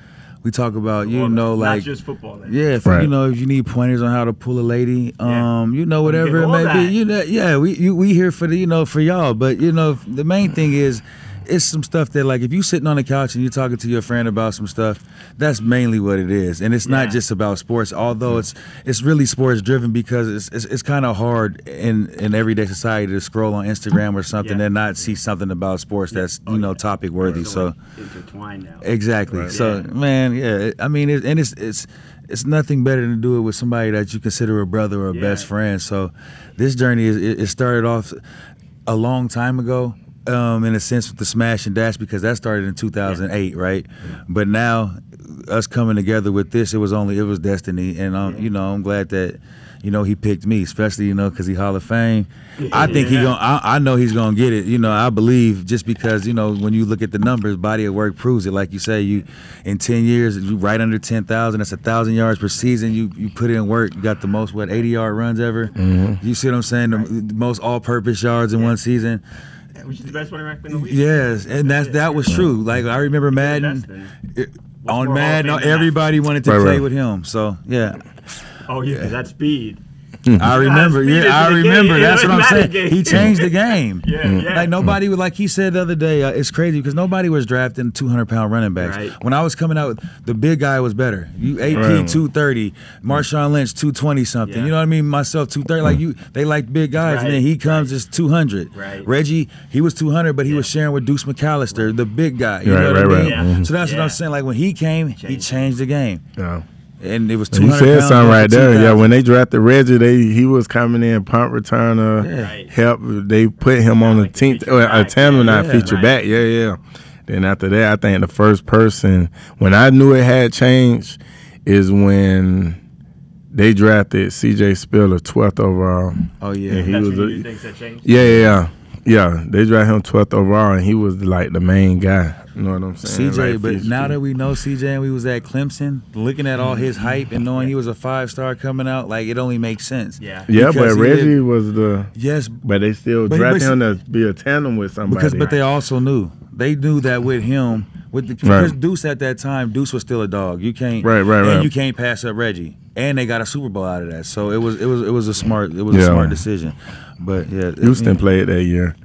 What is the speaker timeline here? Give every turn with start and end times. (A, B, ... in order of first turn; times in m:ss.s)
0:00.4-0:01.9 A
0:01.0-0:02.7 B
0:02.5-0:27.7 A
0:05.2-0:05.5 B
0:06.0-0:07.0 B
0:16.8-0:17.2 B
0:24.4-0:25.1 B
0:26.1-0:28.8 B
0:28.8-0:38.2 A
0:29.3-0:29.5 C
0:29.5-0:29.9 B
0:35.1-0:35.5 B
0:38.8-1:09.2 A
0:52.6-0:53.3 B
1:05.7-1:06.2 C
1:09.8-1:12.5 B
1:10.7-1:18.2 A
1:13.3-1:14.1 B
1:14.8-1:15.9 B
1:16.4-1:16.8 C
1:18.7-1:19.8 B
1:20.4-1:46.2 A
1:20.4-1:24.7 B
1:24.2-1:24.9 C
1:28.8-1:29.2 B
1:31.6-1:31.9 B
1:31.7-1:32.2 C
1:34.4-1:34.7 B
1:37.0-1:37.9 B
1:38.7-1:39.1 B
1:42.6-1:43.7 C
1:43.1-1:44.2 B
1:45.2-1:45.7 B
1:46.4-1:46.6 C
1:47.0-1:49.1 A
1:47.5-2:02.8 C
1:52.2-1:52.5 A
1:52.3-1:52.7 B
1:53.9-1:56.2 B
1:55.4-1:56.0 A
2:03.5-2:07.4 C
2:06.4-2:06.9 A
2:06.9-2:08.3 B
2:08.0-2:14.2 C
2:08.1-2:08.6 A
2:13.0-2:21.3 A
2:20.2-2:20.5 B
2:20.5-2:25.5 C
2:22.1-2:22.6 A
2:23.3-2:23.8 A
2:25.1-2:38.2 A
2:25.4-2:25.7 B
2:28.4-2:28.8 C
2:31.0-2:31.7 C
2:35.9-2:36.4 C
2:37.8-2:39.0 C